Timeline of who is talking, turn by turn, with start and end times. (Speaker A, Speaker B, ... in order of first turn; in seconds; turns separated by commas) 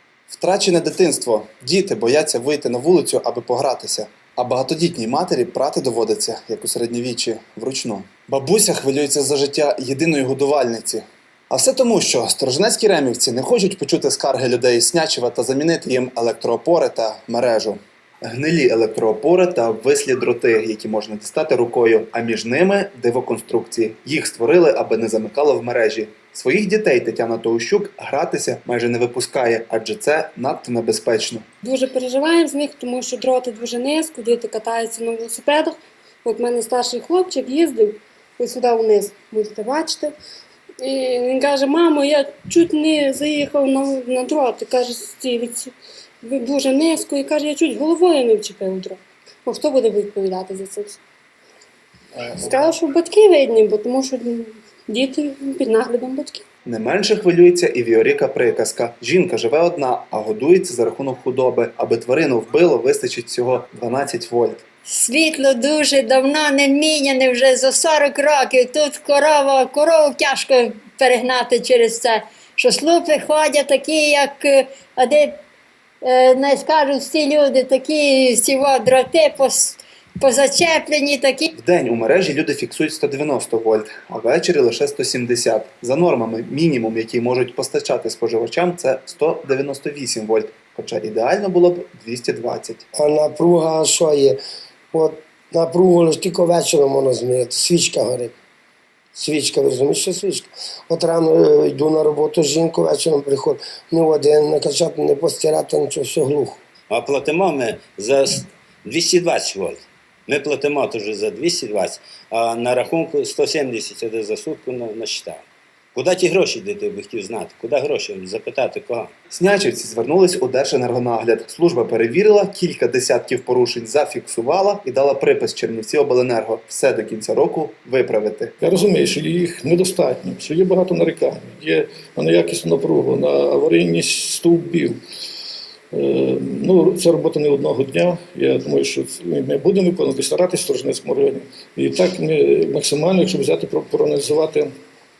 Speaker A: 0.3-31.4, Speaker B: 31.6-40.1, Speaker B: 40.8-45.7, Speaker B: 46.2-51.0, Speaker B: 52.2-56.4, Speaker A: 56.6-64.6, Speaker C: 64.9-75.4, Speaker C: 76.0-81.5, Speaker A: 81.5-92.8, Speaker D: 93.0-94.4, Speaker D: 94.9-98.3, Speaker D: 99.1-106.6, Speaker E: 106.9-119.1, Speaker A: 119.3-128.5, Speaker F: 128.6-135.0, Speaker F: 135.9-144.7